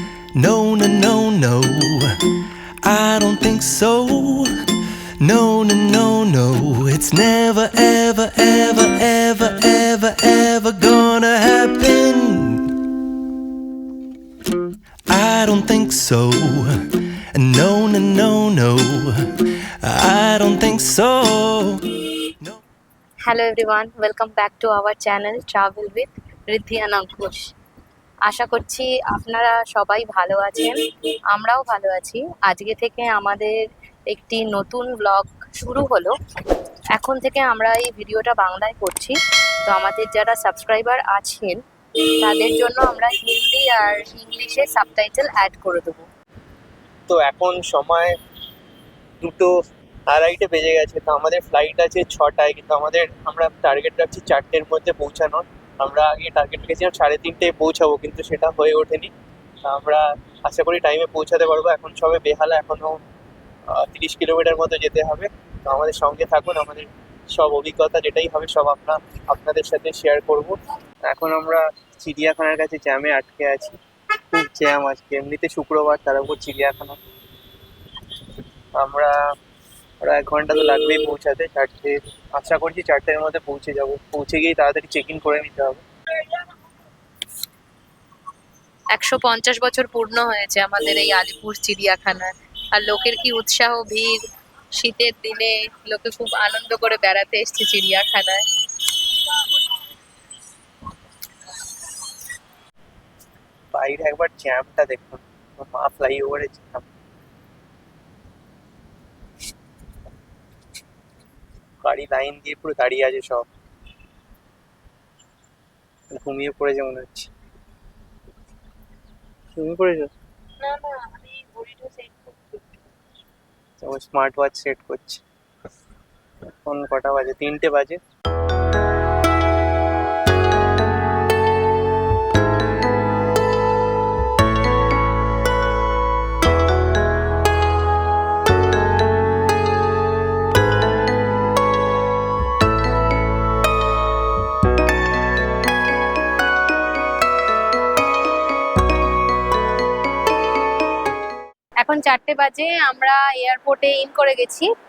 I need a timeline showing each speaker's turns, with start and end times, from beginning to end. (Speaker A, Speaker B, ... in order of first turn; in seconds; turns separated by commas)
Speaker A: 0.3-2.1, Speaker A: 2.8-4.5, Speaker A: 5.2-12.6, Speaker A: 15.1-16.8, Speaker A: 17.4-19.2, Speaker A: 19.9-21.8, Speaker B: 23.3-27.5, Speaker B: 28.3-30.8, Speaker B: 31.3-33.5, Speaker B: 34.1-36.1, Speaker B: 37.0-41.6, Speaker B: 42.2-46.1, Speaker C: 47.1-48.1, Speaker C: 49.2-49.5, Speaker C: 50.1-59.1, Speaker C: 59.6-63.0, Speaker C: 63.7-73.8, Speaker C: 74.3-77.0, Speaker C: 78.8-79.1, Speaker C: 80.0-85.8, Speaker B: 88.9-94.2, Speaker B: 94.7-98.4, Speaker C: 103.7-106.8, Speaker C: 111.8-113.5, Speaker C: 116.1-117.3, Speaker C: 119.5-120.1, Speaker B: 120.6-122.4, Speaker C: 123.8-125.2, Speaker C: 126.7-128.0, Speaker B: 151.8-154.7